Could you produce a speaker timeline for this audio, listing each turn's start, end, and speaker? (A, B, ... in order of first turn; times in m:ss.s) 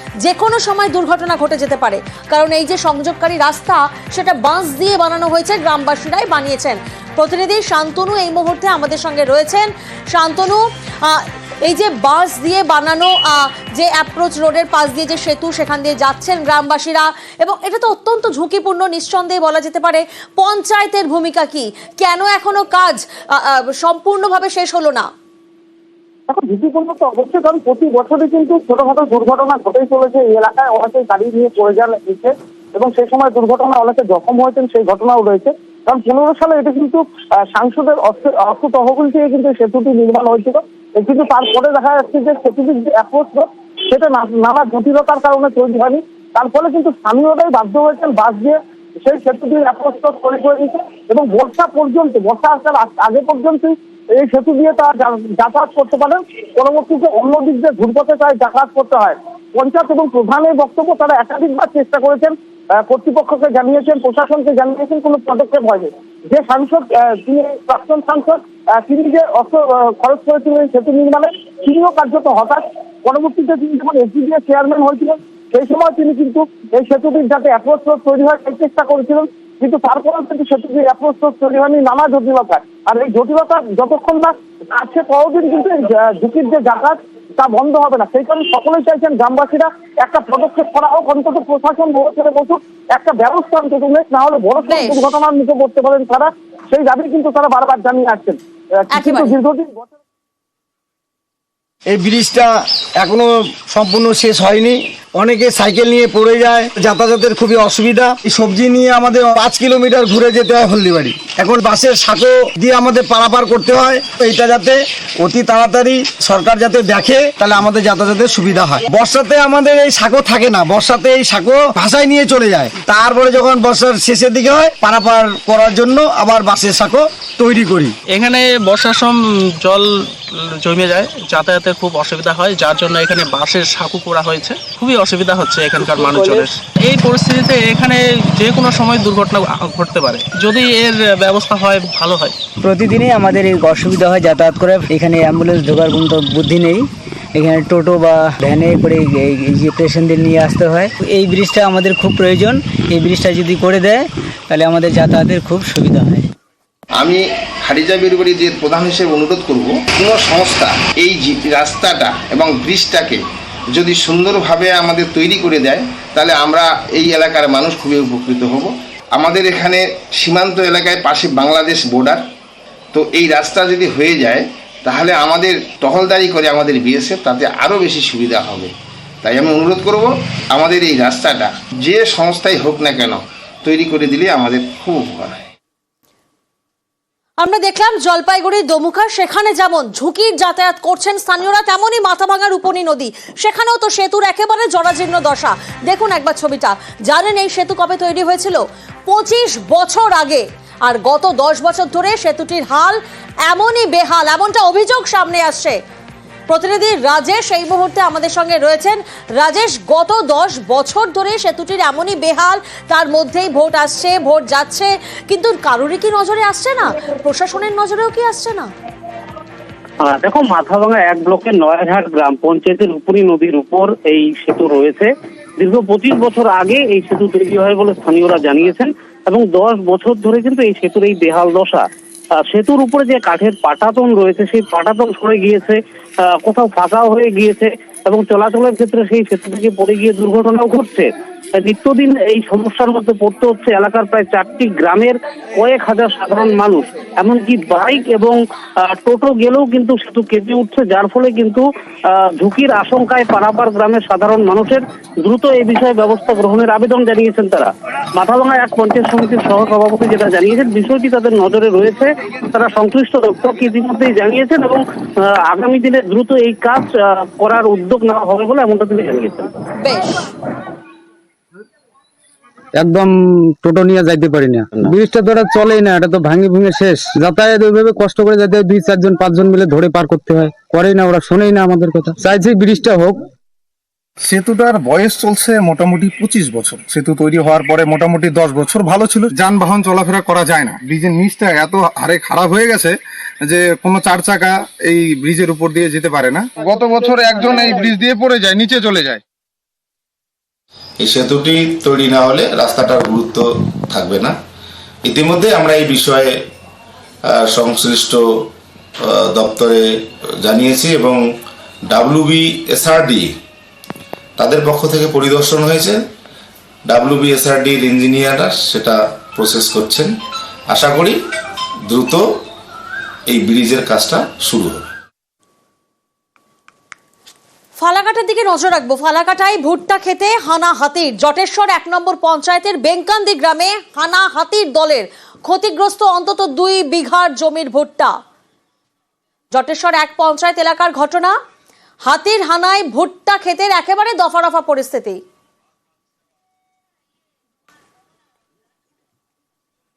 0:00.2-0:25.1 A
0:26.3-1:39.9 B
1:34.7-1:35.0 A
1:38.9-1:39.4 A
1:41.9-2:07.9 C
2:08.1-2:09.9 D
2:10.6-2:22.3 D
2:15.9-2:16.5 E
2:22.6-2:36.3 E
2:37.0-2:52.3 F
2:52.9-3:05.5 F
3:07.4-3:25.8 A
3:26.5-3:38.7 A
3:40.0-3:51.8 G
3:52.5-4:29.5 G
4:29.8-4:30.2 A
4:32.7-4:43.2 H
4:44.3-4:52.9 I
4:53.5-4:56.4 I
5:01.0-5:04.3 J
5:05.0-5:06.3 J
5:07.4-5:08.2 J
5:09.3-5:09.8 J
5:10.4-5:11.2 J
5:11.9-5:13.3 J
5:14.4-5:16.0 J
5:16.9-5:20.1 J
5:20.7-5:21.2 J
5:21.9-5:22.2 J
5:23.3-5:24.8 J
5:27.8-5:38.1 A
5:39.5-5:41.4 A
5:42.0-5:45.2 A